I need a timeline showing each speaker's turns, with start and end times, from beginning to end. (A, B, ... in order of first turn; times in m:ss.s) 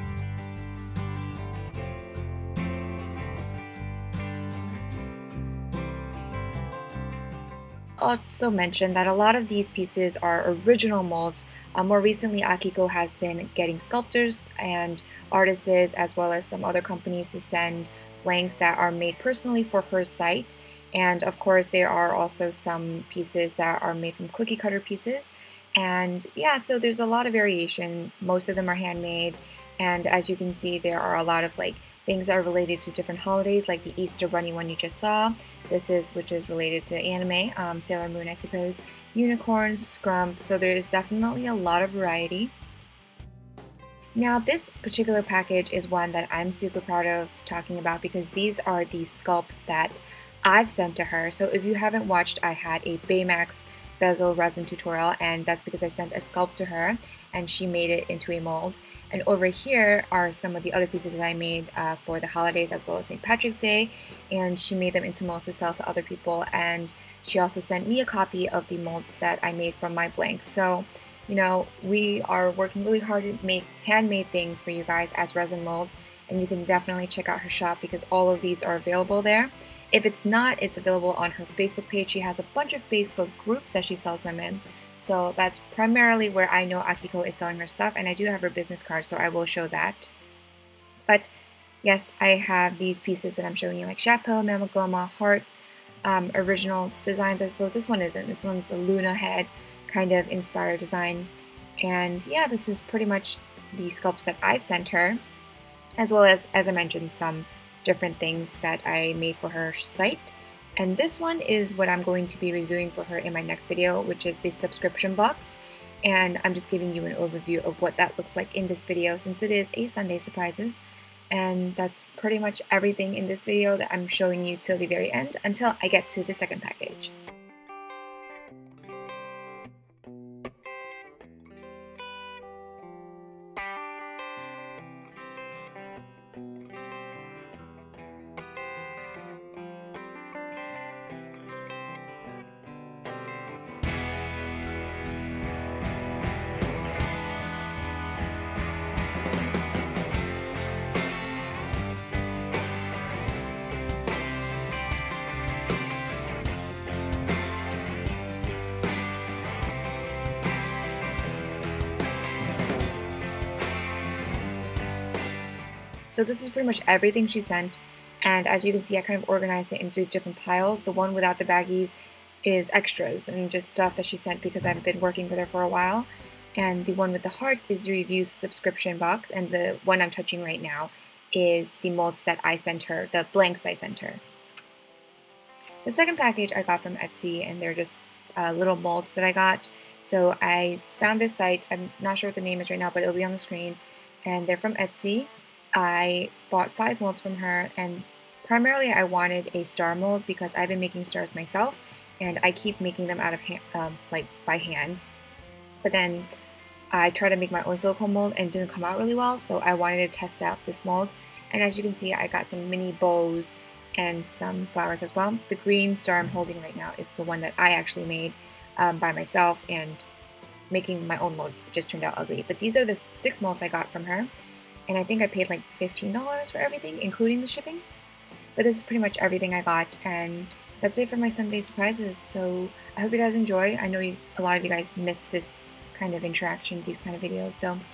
0:08.0-0:42.5 A
0:44.1-1:30.1 A
1:31.8-1:41.3 A
1:41.8-1:45.2 A
1:46.0-2:00.8 A
2:01.3-2:07.1 A
2:46.1-3:04.2 A
3:05.8-3:25.0 A
3:25.8-3:26.3 A
3:26.9-3:40.1 A
3:40.7-3:44.3 A
3:44.9-3:47.8 A
3:48.6-3:57.8 A